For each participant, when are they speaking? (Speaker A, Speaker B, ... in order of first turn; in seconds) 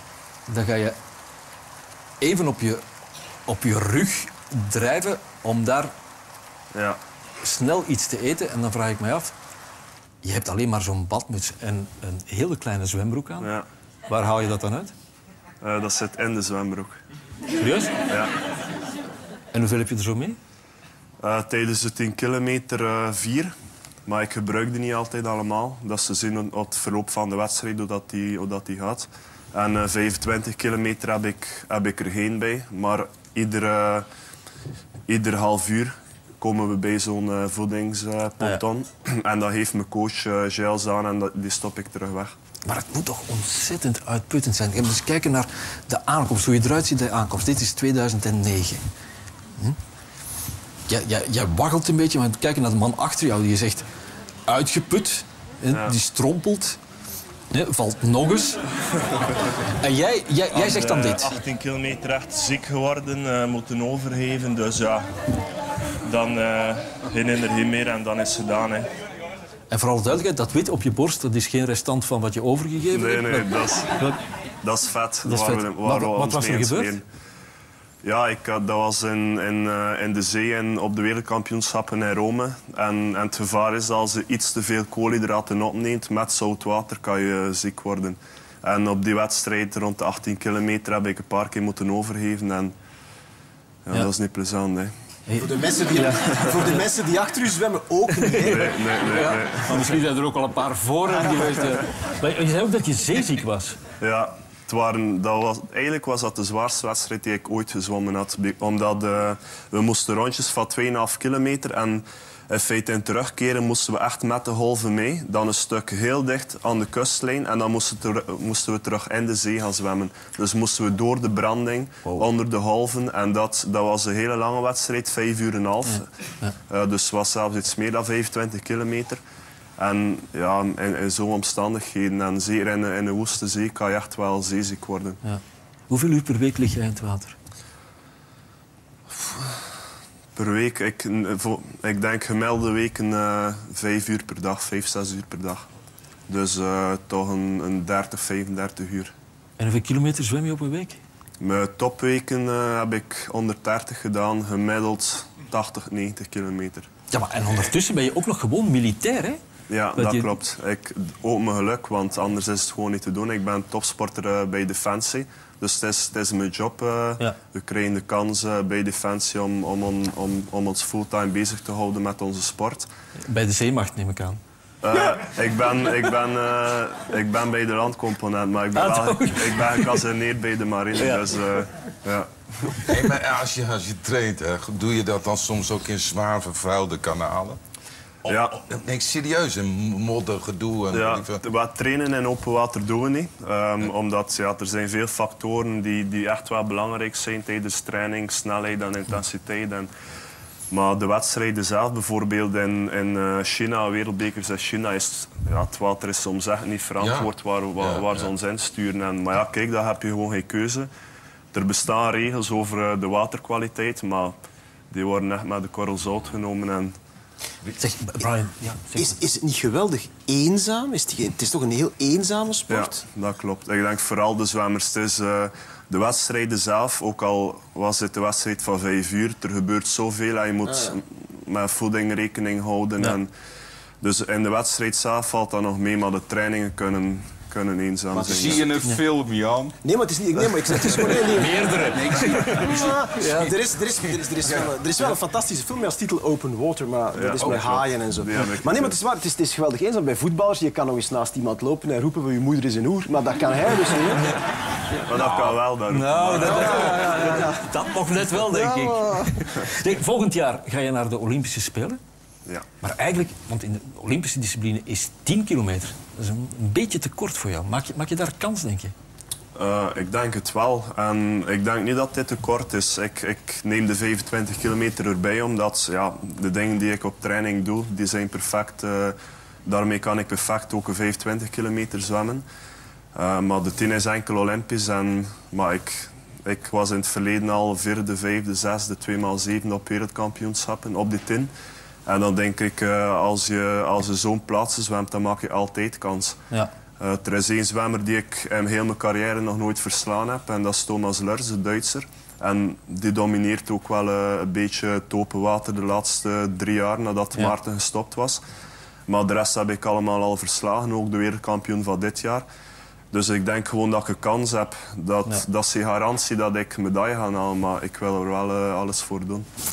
Speaker A: 0.5-1.0, 2.2-2.8, 3.5-5.9, 7.4-9.3, 10.2-13.5, 14.1-14.9, 17.6-17.9, 19.5-20.4, 42.6-48.8, 50.9-53.8, 54.5-56.8, 57.5-58.6, 59.7-61.3, 69.7-74.2, 75.2-77.0, 95.3-96.2, 98.1-103.8, 125.9-126.5, 135.2-137.3, 149.6-151.0, 157.1-159.4, 159.9-160.3, 173.2-174.4, 178.7-180.0, 217.8-219.2, 240.8-243.5, 255.2-262.0, 262.8-268.9
Speaker B: 6.7-7.0, 13.4-13.7, 15.6-17.0, 21.2-23.5, 24.1-34.0, 35.1-42.4, 55.7-56.0, 60.5-65.1, 66.0-68.9, 72.9-73.9, 74.6-77.0, 78.0-92.7, 93.8-94.9, 96.3-96.5, 98.4-99.9, 104.0-126.1, 126.7-129.2, 129.8-135.2, 140.3-145.7, 146.3-149.1, 151.4-156.9, 159.7-172.9, 174.8-182.9, 188.2-188.6, 190.9-199.9, 200.7-210.9, 211.5-214.4, 214.9-216.9, 222.7-233.3, 234.0-238.7, 247.1-249.0, 255.0-256.9, 269.5-282.4, 283.1-291.5, 292.1-296.4, 297.0-308.4, 309.1-312.4, 313.1-319.5
Speaker C: 95.3-98.8, 218.9-223.0, 230.7-231.0, 238.1-238.7, 239.8-242.0, 242.6-254.4, 256.4-257.6, 258.5-259.3
Speaker D: 182.9-187.6, 188.2-191.4, 207.0-208.3, 238.1-239.8, 241.8-244.7, 247.4-247.8